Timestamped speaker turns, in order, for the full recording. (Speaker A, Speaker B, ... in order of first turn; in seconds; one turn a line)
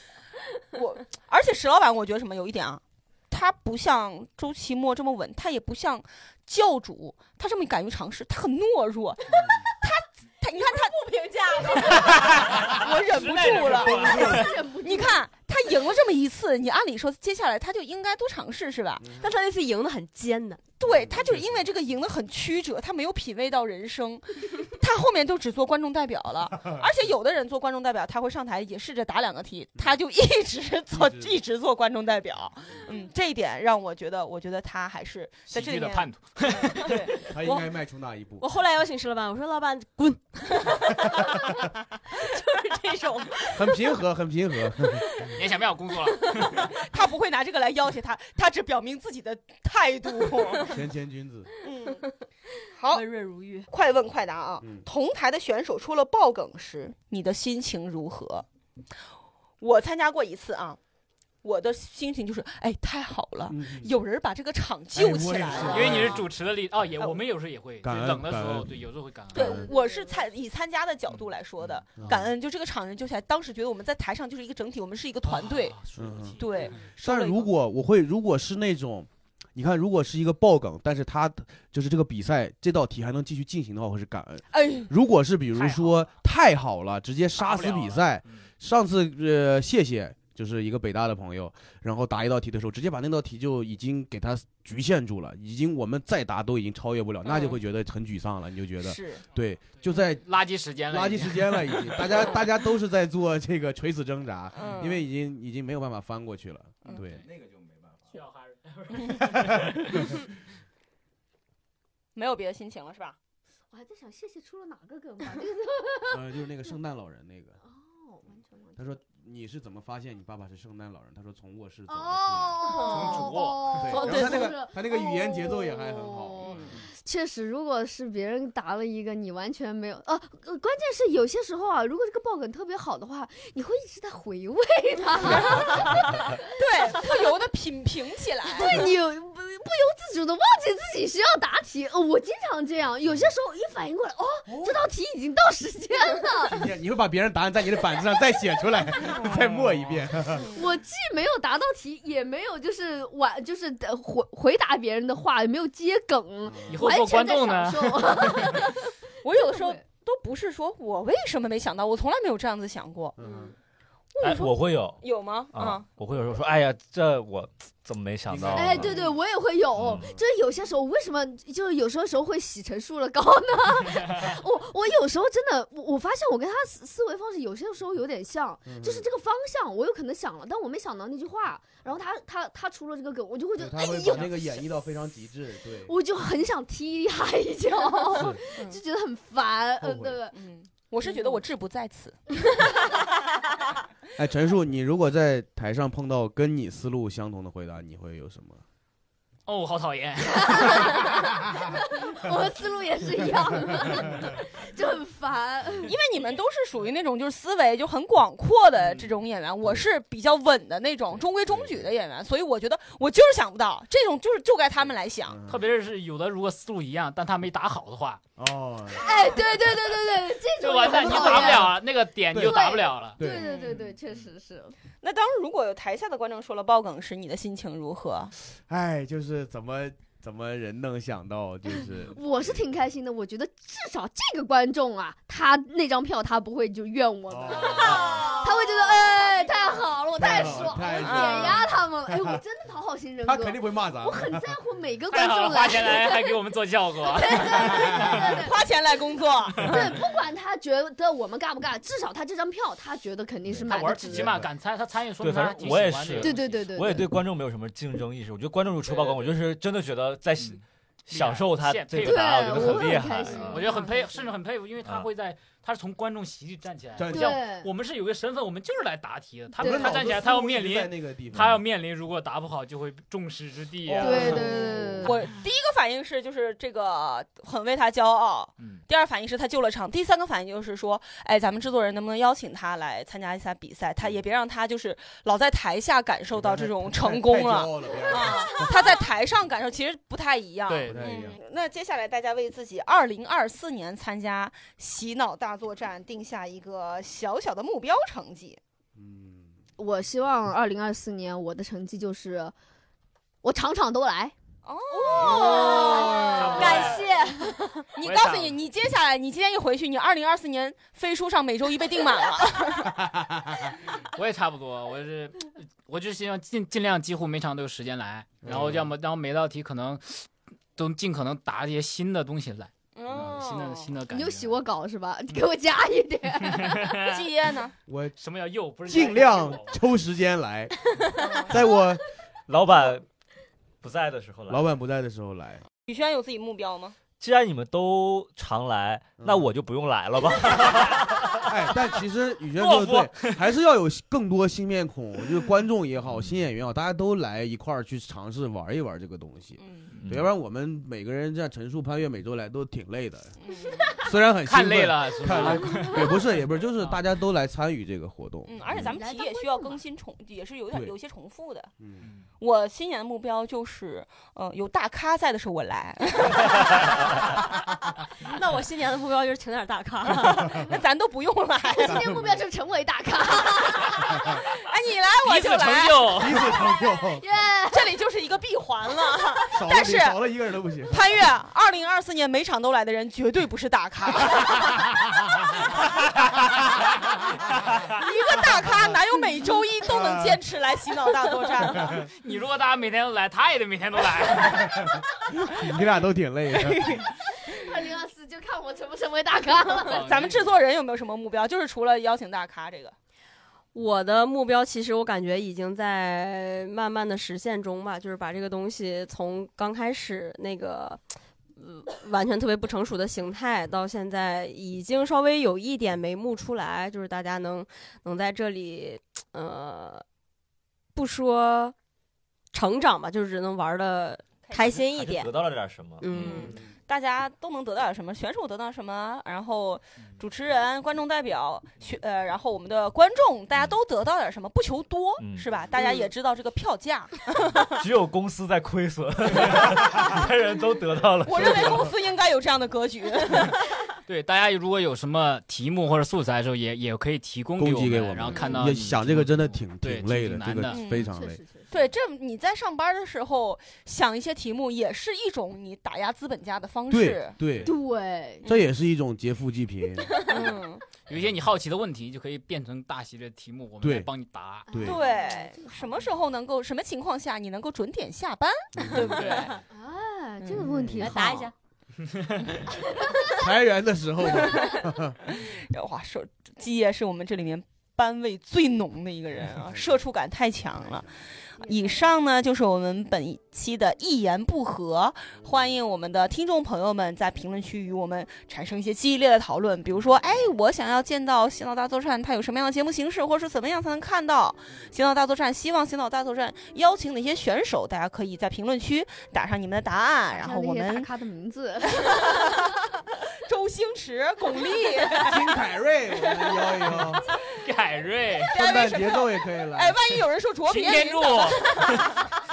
Speaker A: 0.7-19.1
Speaker B: 11.7-12.5
Speaker C: 12.1-12.4
Speaker D: 12.5-14.6
Speaker E: 13.8-15.2
Speaker C: 19.0-19.3
Speaker B: 19.2-20.6
Speaker A: 20.8-36.1
Speaker C: 20.8-21.6
Speaker C: 30.9-31.4
Speaker D: 35.4-37.3
Speaker B: 36.8-37.6
Speaker C: 37.3-38.4
Speaker B: 38.4-43.8
Speaker C: 43.5-45.1
Speaker D: 45.2-46.7
Speaker A: 46.7-50.8
Speaker C: 50.6-51.5
Speaker A: 51.6-52.0
Speaker A: 52.7-53.0
Speaker B: 52.9-53.7
Speaker A: 53.7-58.4
Speaker A: 59.6-60.8
Speaker A: 61.4-66.3
Speaker C: 63.5-64.0
Speaker C: 64.9-66.2
Speaker D: 65.7-69.5
Speaker C: 67.8-68.7
Speaker C: 69.3-69.7
Speaker A: 69.3-75.8
Speaker B: 69.5-70.2
Speaker D: 71.1-72.1
Speaker C: 72.0-72.3
Speaker D: 75.2-76.8
Speaker C: 75.9-100.2
Speaker A: 76.4-77.5
Speaker A: 84.5-84.9
Speaker A: 85.5-86.0
Speaker D: 87.4-88.4
Speaker A: 97.2-97.6
Speaker A: 98.8-99.2
Speaker D: 100.1-102.1
Speaker C: 100.9-108.1
Speaker A: 104.5-105.0
Speaker D: 106.9-107.2
Speaker D: 108.1-110.1
Speaker C: 109.2-110.1
Speaker A: 112.1-113.2
Speaker E: 113.7-116.2
Speaker C: 116.1-117.6
Speaker E: 117.6-119.0
Speaker C: 118.8-122.8
Speaker E: 121.9-137.3
Speaker B: 122.7-123.3
Speaker D: 122.8-124.2
Speaker C: 123.8-126.8
Speaker B: 123.9-124.5
Speaker A: 126.4-126.8
Speaker A: 135.2-138.9
Speaker E: 138.5-146.6
Speaker C: 144.5-144.8
Speaker C: 146.4-150.6
Speaker D: 149.3-149.9
Speaker A: 150.3-150.6
Speaker E: 150.4-159.8
Speaker C: 156.4-156.9
Speaker D: 156.7-158.7
Speaker A: 159.2-163.2
Speaker C: 163.2-163.5
Speaker A: 164.1-165.8
Speaker F: 164.2-169.0
Speaker C: 168.3-169.1
Speaker E: 168.5-184.7
Speaker F: 169.7-170.1
Speaker C: 169.9-170.2
Speaker C: 178.7-179.0
Speaker C: 183.6-185.9
Speaker E: 185.8-190.3
Speaker C: 188.1-188.4
Speaker C: 189.8-190.1
Speaker A: 190.3-192.2
Speaker C: 194.2-198.6
Speaker D: 199.4-201.4
Speaker E: 200.3-205.9
Speaker A: 205.8-215.4
Speaker D: 208.8-209.2
Speaker C: 211.5-211.9
Speaker C: 215.3-215.7
Speaker D: 215.5-218.2
Speaker C: 218.4-219.5
Speaker E: 218.9-221.8
Speaker D: 220.6-223.2
Speaker C: 220.9-221.8
Speaker C: 222.3-223.5
Speaker E: 222.3-224.7
Speaker A: 223.3-223.8
Speaker A: 225.0-228.3
Speaker C: 228.5-232.6
Speaker E: 232.0-248.6
Speaker C: 237.3-238.3
Speaker A: 237.8-238.4
Speaker C: 240.2-242.4
Speaker A: 240.4-241.6
Speaker C: 243.2-244.6
Speaker D: 245.1-248.3
Speaker C: 247.7-248.2
Speaker A: 248.3-249.9
Speaker E: 249.6-254.4
Speaker D: 249.6-249.9
Speaker C: 253.5-254.5
Speaker D: 253.7-256.7
Speaker F: 255.2-263.9
Speaker E: 256.2-257.1
Speaker D: 260.4-274.4
Speaker E: 262.0-264.1
Speaker A: 263.6-264.1
Speaker F: 264.8-265.1
Speaker C: 267.0-267.4
Speaker E: 267.1-267.7
Speaker E: 269.6-270.1
Speaker C: 269.6-271.6
Speaker F: 271.3-271.6
Speaker C: 273.9-275.1
Speaker E: 273.9-275.1
Speaker A: 275.0-298.6
Speaker D: 278.6-278.8
Speaker C: 284.0-284.2
Speaker C: 286.3-289.0
Speaker D: 290.7-291.2
Speaker C: 290.9-291.4
Speaker C: 298.9-299.5
Speaker E: 299.8-302.5
Speaker E: 303.4-304.3
Speaker A: 304.6-307.0
Speaker E: 305.1-306.5
Speaker B: 305.1-307.8
Speaker C: 305.2-306.6
Speaker D: 306.3-307.1
Speaker A: 307.9-313.0
Speaker D: 308.0-308.6
Speaker C: 313.0-313.6
Speaker D: 314.0-324.6
Speaker C: 318.4-318.9
Speaker A: 322.9-323.9
Speaker E: 324.1-327.0
Speaker D: 326.4-327.3
Speaker A: 327.0-327.7
Speaker C: 327.9-328.1
Speaker D: 328.2-329.8
Speaker C: 328.9-330.8
Speaker A: 331.1-331.6
Speaker C: 331.4-332.0
Speaker F: 332.5-333.1
Speaker F: 333.8-334.7
Speaker C: 334.5-335.6
Speaker A: 335.9-337.0
Speaker F: 337.2-341.5
Speaker C: 339.2-339.5
Speaker C: 340.8-353.4
Speaker D: 342.6-343.4
Speaker A: 349.6-349.9
Speaker F: 350.0-350.2
Speaker A: 353.4-353.8
Speaker E: 353.8-354.1
Speaker C: 354.0-358.9
Speaker D: 354.4-356.1
Speaker E: 355.4-356.1
Speaker A: 358.4-361.7
Speaker E: 358.8-359.8
Speaker C: 361.8-362.0
Speaker D: 362.0-362.3
Speaker A: 362.4-367.2
Speaker B: 368.2-370.6
Speaker A: 370.4-372.1
Speaker E: 371.6-374.4
Speaker C: 371.9-372.4
Speaker A: 374.2-376.2
Speaker D: 375.2-376.4
Speaker C: 376.1-377.2
Speaker E: 376.4-377.9
Speaker A: 377.7-380.2
Speaker C: 379.5-381.1
Speaker A: 380.9-385.6
Speaker C: 386.4-386.9
Speaker A: 387.9-392.1
Speaker C: 388.6-388.9
Speaker C: 389.9-390.4
Speaker D: 391.9-394.9
Speaker C: 394.5-397.0
Speaker A: 396.5-397.6
Speaker E: 397.2-400.1
Speaker D: 399.9-400.6
Speaker A: 399.9-402.9
Speaker B: 403.7-411.0
Speaker B: 411.6-420.0
Speaker B: 420.9-421.7
Speaker B: 422.5-425.3
Speaker F: 424.6-426.5
Speaker B: 426.0-426.6
Speaker A: 426.1-437.8
Speaker F: 435.2-435.5
Speaker F: 437.6-441.9
Speaker A: 441.2-443.6
Speaker C: 441.4-441.8
Speaker D: 444.1-450.8
Speaker C: 447.6-451.4
Speaker A: 448.3-448.6
Speaker A: 450.7-451.1
Speaker E: 450.9-451.9
Speaker A: 451.7-457.4
Speaker C: 456.9-457.7
Speaker E: 457.6-458.5
Speaker C: 458.4-460.5
Speaker E: 460.0-460.5
Speaker A: 460.1-460.8
Speaker D: 461.1-464.7
Speaker C: 463.8-464.1
Speaker E: 464.7-466.1
Speaker C: 464.7-465.0
Speaker A: 464.8-469.6
Speaker C: 468.7-469.2
Speaker D: 469.0-469.5
Speaker E: 469.7-471.5
Speaker A: 470.4-470.7
Speaker C: 470.6-471.1
Speaker B: 471.0-471.5
Speaker D: 472.0-472.6
Speaker E: 472.9-473.3
Speaker C: 473.3-475.2
Speaker A: 474.3-501.1
Speaker C: 479.5-480.0
Speaker C: 480.8-481.1
Speaker E: 481.6-482.1
Speaker E: 500.3-502.7
Speaker A: 501.8-502.7
Speaker A: 503.4-505.5
Speaker C: 505.2-507.3
Speaker A: 506.2-506.9
Speaker D: 507.5-508.6
Speaker C: 508.5-510.0
Speaker A: 508.5-512.2
Speaker D: 510.6-512.1